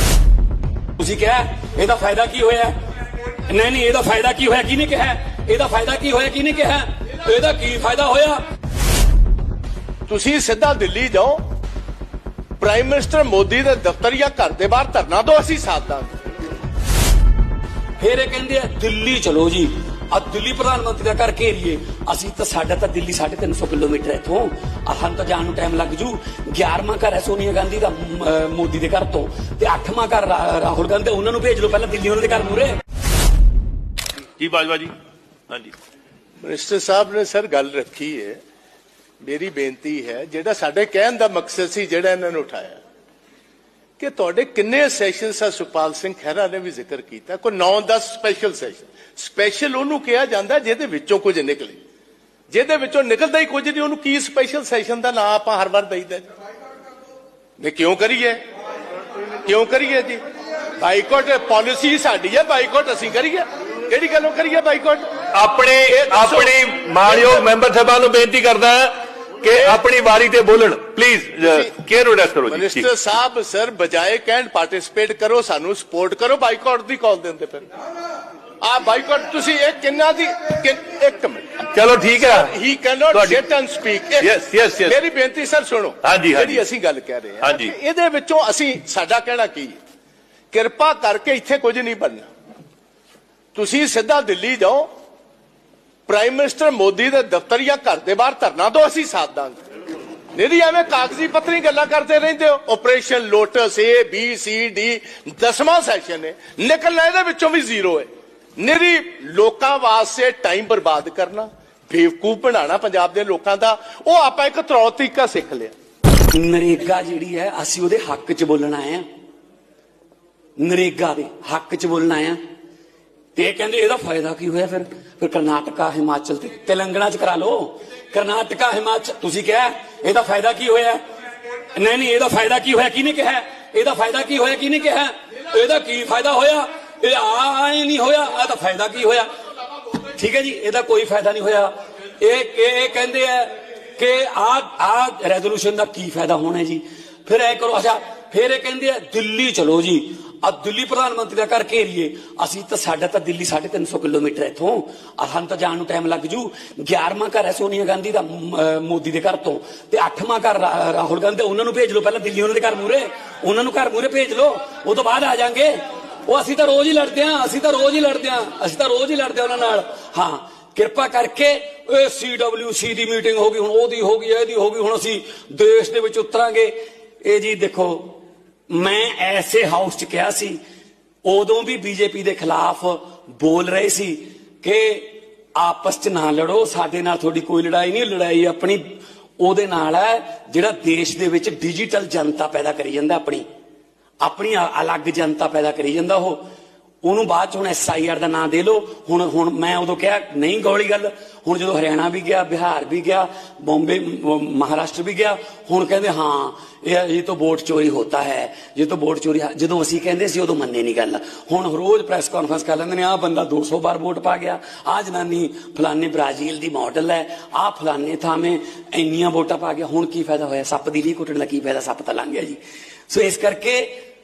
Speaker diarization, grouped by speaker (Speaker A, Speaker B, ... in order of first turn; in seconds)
Speaker A: 1.0-2.7, 3.5-8.4, 18.0-32.7, 116.3-119.0, 120.6-122.4, 123.4-131.0, 131.7-139.3, 140.0-180.6, 181.2-188.8, 189.4-193.4, 194.2-196.4, 197.0-223.9
Speaker B: 10.1-11.4, 12.6-16.1, 36.4-38.4, 39.2-42.8, 44.0-51.8, 52.5-56.3, 57.6-58.4, 59.4-60.2, 60.8-65.0, 65.9-66.5, 69.5-69.8, 72.5-77.7, 78.6-81.6, 82.2-89.8, 90.5-92.3, 93.5-94.9, 96.1-99.6, 100.3-115.7
Speaker C: 34.4-34.9, 35.5-35.7, 65.3-72.9, 81.7-82.5, 83.1-83.4, 84.2-85.0, 86.0-86.7, 87.4-87.7